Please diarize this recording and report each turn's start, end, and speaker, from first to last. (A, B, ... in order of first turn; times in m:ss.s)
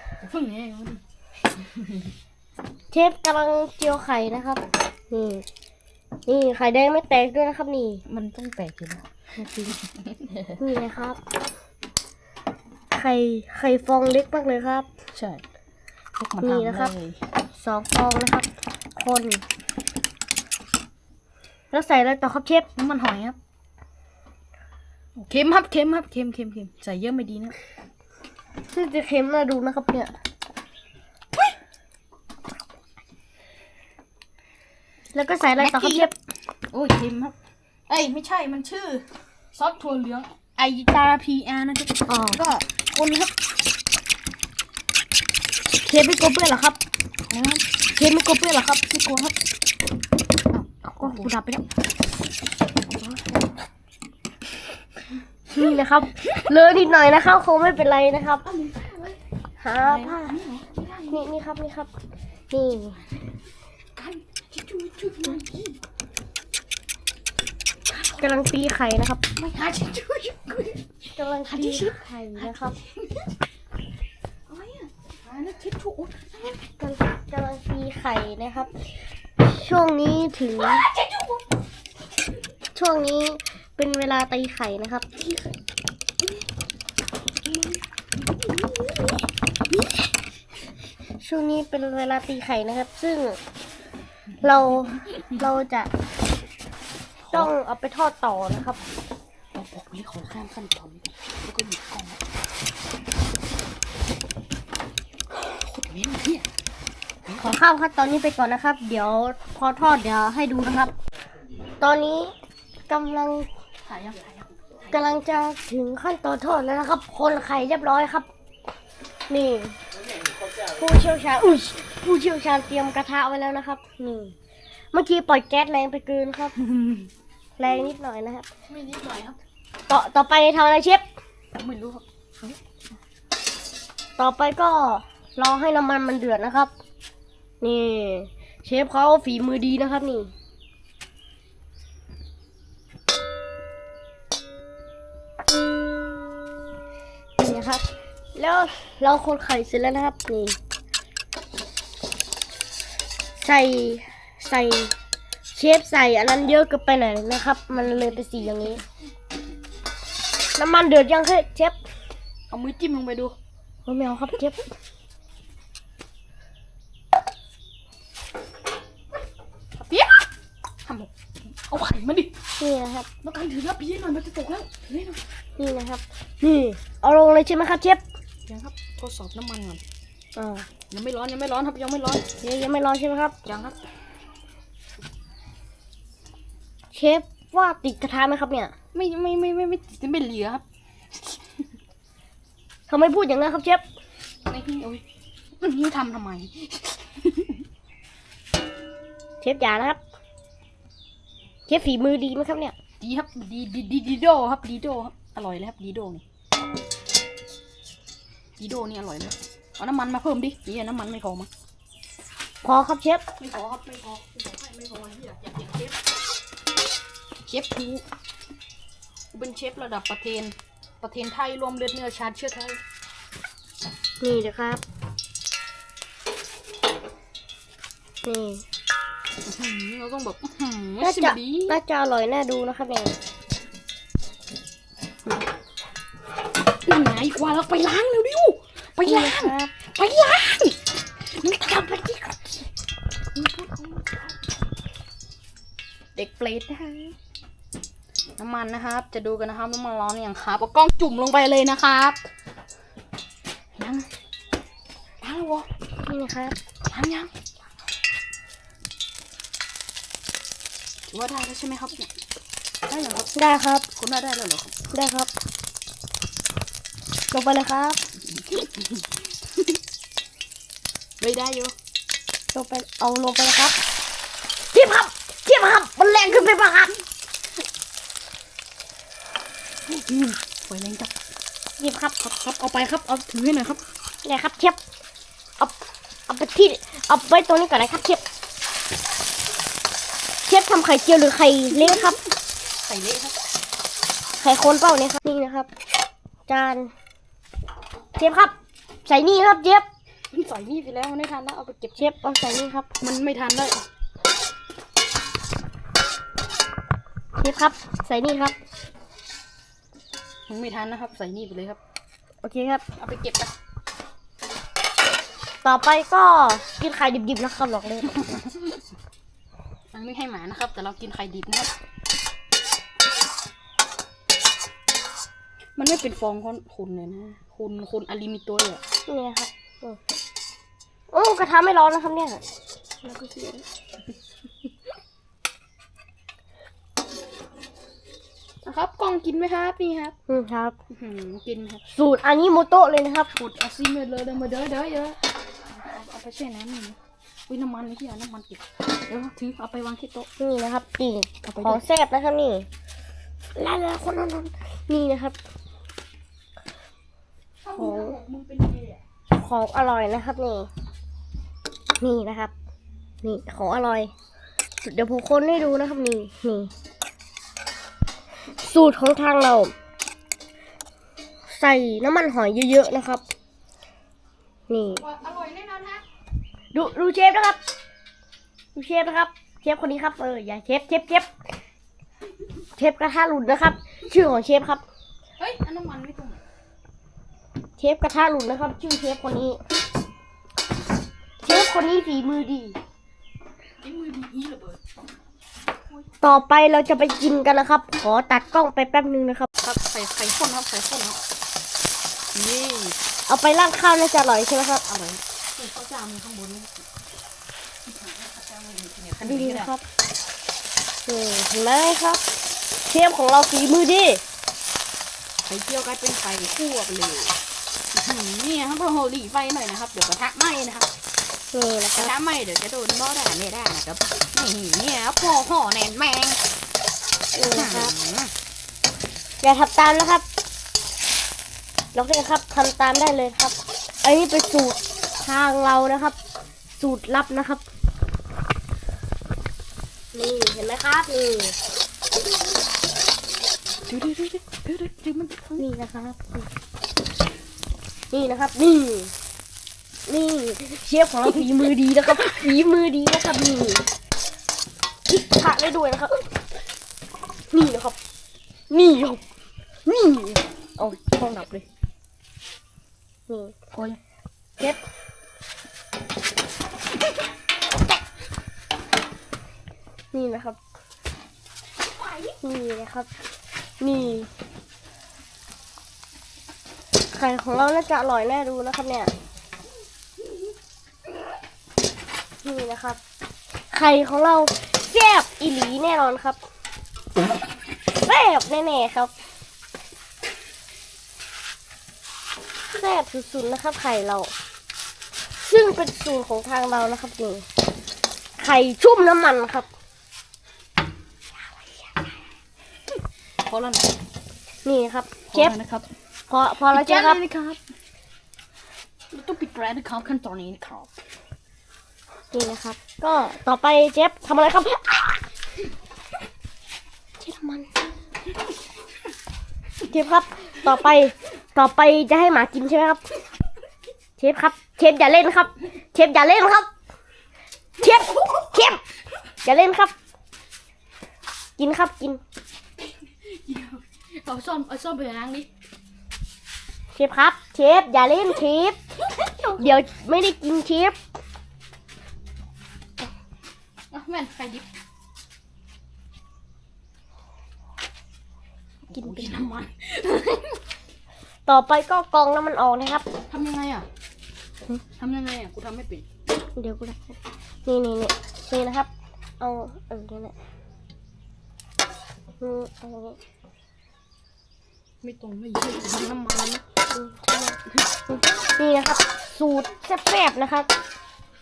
0:00.2-0:01.0 A
0:01.6-0:02.0 A
0:02.9-0:05.4 B
0:06.2-0:08.0 B
0:08.1-0:09.0 A
0:09.4-0:09.7 B
0:09.7-0:10.6 A
0:10.6-0:11.2 B
0:12.9-0:14.8 B
0:15.1-0:15.4 A
0:16.2-0:17.2 A
0:16.4-0:16.9 B
0:17.5-0:19.4 B
0:21.7-0:22.7 B
0:22.8-0:23.4 A
0:25.2-0:27.5 A
0:28.7-0:30.1 B
0:35.1-0:36.1 B
0:35.6-0:36.1 A
0:36.7-0:37.3 A
0:37.9-0:43.3 A
0:42.1-0:42.4 B
0:45.8-0:46.8 B
0:47.3-0:47.6 A
0:47.9-0:48.8 B
0:48.9-0:49.3 A
0:50.5-0:51.3 A
0:50.9-0:51.6 B
0:55.5-0:58.5 B
0:58.4-0:59.2 A
0:59.6-1:00.4 B
0:59.8-1:01.3 A
1:01.1-1:01.9 B
1:02.5-1:03.0 B
1:04.0-1:05.8 A
1:07.9-1:08.4 A
1:08.2-1:09.2 B
1:09.4-1:10.8 A
1:11.1-1:12.8 B
1:11.4-1:13.3 A
1:14.5-1:16.6 A
1:16.8-1:18.7 B
1:19.4-1:20.8 B
1:20.6-1:21.4 A
1:22.7-1:25.0 B
1:27.4-1:30.1 A
1:31.2-1:33.4 B
1:34.4-1:35.9 B
1:37.2-1:37.5 A
1:37.3-1:38.8 B
1:39.5-1:42.2 A
1:45.3-1:46.4 A
1:47.3-1:50.9 B
1:51.8-1:52.3 B
1:52.9-1:53.5 B
1:53.9-1:54.9 A
1:54.9-1:58.3 B
1:59.3-1:59.8 B
2:00.6-2:04.3 B
2:04.9-2:06.6 B
2:06.6-2:07.1 A
2:07.6-2:08.4 B
2:08.7-2:09.4 A
2:09.9-2:11.0 B
2:11.5-2:12.0 A
2:14.2-2:16.7 B
2:17.6-2:20.3 B
2:27.4-2:30.6 B
2:33.3-2:34.9 B
2:35.5-2:38.8 B
2:40.6-2:41.8 B
2:42.5-2:43.3 A
2:43.8-2:44.6 B
2:49.8-2:50.2 A
2:50.8-2:51.1 A
2:51.6-2:52.3 A
2:52.6-2:53.1 B
2:53.2-2:55.2 A
2:55.6-2:58.0 B
2:58.5-2:59.8 A
3:00.4-3:00.7 B
3:00.9-3:02.2 A
3:02.4-3:03.4 B
3:03.4-3:03.8 A
3:06.9-3:08.7 B
3:08.9-3:10.6 A
3:12.9-3:13.8 B
3:14.4-3:15.0 A
3:15.6-3:17.6 A
3:19.4-3:20.0 B
3:21.7-3:22.7 B
3:23.0-3:26.2 A
3:28.6-3:31.5 A
3:32.6-3:33.2 B
3:33.4-3:36.0 A
3:37.4-3:38.0 A
3:39.3-3:42.8 A
3:44.2-3:44.8 B
3:48.2-3:48.6 B
3:49.4-3:51.8 A
3:51.0-3:53.2 B
3:56.8-4:02.7 A
3:59.0-3:59.7 B
4:03.3-4:04.3 A
4:06.2-4:07.1 A
4:08.4-4:12.2 A
4:13.8-4:14.1 A
4:15.2-4:15.7 A
4:16.0-4:16.6 B
4:16.9-4:17.3 A
4:21.1-4:22.1 A
4:22.9-4:23.4 A
4:23.4-4:23.9 B
4:24.0-4:24.7 A
4:24.9-4:25.3 B
4:27.3-4:28.0 B
4:31.2-4:31.7 A
4:32.5-4:33.8 B
4:34.7-4:36.9 B
4:39.9-4:41.1 A
4:41.8-4:42.3 B
4:42.3-4:43.8 A
4:44.2-4:44.8 B
4:46.3-4:48.2 B
4:50.4-4:52.2 B
4:51.7-4:52.2 A
4:52.8-4:53.4 A
4:54.4-4:55.7 B
4:56.5-4:56.9 B
4:58.1-4:58.5 B
4:59.0-4:59.9 B
5:00.3-5:02.0 A
5:02.0-5:02.9 B
5:03.0-5:03.8 A
5:07.4-5:08.6 B
5:10.5-5:11.8 A
5:12.4-5:12.8 B
5:13.0-5:13.5 A
5:15.6-5:18.3 B
5:19.9-5:21.7 A
5:25.8-5:28.8 A
5:29.1-5:30.0 B
5:31.1-5:32.4 B
5:33.0-5:33.6 B
5:38.6-5:40.1 A
5:40.3-5:40.8 B
5:40.9-5:41.8 A
5:41.9-5:43.3 B
5:43.3-5:45.2 A
5:45.7-5:50.3 A
5:50.4-5:52.7 B
5:51.4-5:51.8 A
5:53.5-5:55.4 B
5:57.6-5:59.0 A
5:57.7-5:58.2 B
5:59.3-6:00.7 B
6:02.0-6:02.5 B
6:03.2-6:04.1 B
6:04.8-6:06.7 B
6:08.5-6:09.7 B
6:11.5-6:13.2 B
6:14.7-6:15.0 B
6:15.0-6:16.0 A
6:16.7-6:17.6 B
6:18.7-6:21.3 B
6:22.8-6:24.8 B
6:25.4-6:26.4 A
6:27.8-6:29.6 B
6:31.4-6:32.8 B
6:33.8-6:34.8 A
6:36.2-6:39.5 B
6:39.6-6:41.2 A
6:42.3-6:43.0 A
6:43.3-6:44.8 B
6:44.9-6:46.8 A
6:47.8-6:49.7 A
6:49.2-6:49.8 B
6:51.0-6:52.2 B
6:52.8-6:54.2 B
6:55.4-6:57.4 A
6:57.9-7:00.9 A
7:01.5-7:02.1 B
7:01.9-7:06.4 A
7:07.3-7:07.9 B
7:07.4-7:08.3 A
7:09.4-7:10.2 B
7:11.9-7:16.2 B
7:16.8-7:17.6 B
7:20.1-7:21.6 B
7:23.9-7:25.6 A
7:25.6-7:26.5 B
7:28.1-7:29.1 B
7:30.1-7:33.8 B
7:35.1-7:36.3 B
7:37.5-7:38.0 B
7:38.7-7:39.2 B
7:39.8-7:41.6 B
7:43.3-7:43.5 B
7:50.1-7:50.6 B
7:52.4-7:53.1 B
7:53.8-7:54.3 B
7:57.1-7:59.1 B
8:02.4-8:03.0 B
8:03.7-8:06.4 B
8:08.0-8:09.1 B
8:12.7-8:14.3 B
8:15.4-8:17.4 B
8:18.4-8:19.7 B
8:23.4-8:23.9 A
8:24.6-8:25.6 B
8:25.3-8:25.9 A
8:26.3-8:27.2 B
8:26.6-8:27.6 A
8:29.1-8:30.9 A
8:32.3-8:35.2 B
8:37.2-8:37.7 B
8:39.9-8:43.0 B
8:44.2-8:46.7 B
8:47.8-8:48.8 B
8:49.4-8:49.9 B
8:51.6-8:52.2 B
8:53.2-8:55.5 A
8:56.9-8:58.8 B
8:59.1-8:59.6 A
8:59.6-9:01.0 B
9:03.9-9:04.7 A
9:08.9-9:10.6 A
9:09.0-9:09.3 B
9:11.4-9:13.0 B
9:13.3-9:13.8 A
9:15.0-9:16.0 A
9:16.5-9:20.3 B
9:22.4-9:23.2 B
9:25.0-9:26.6 A
9:26.9-9:27.6 B
9:28.1-9:30.7 B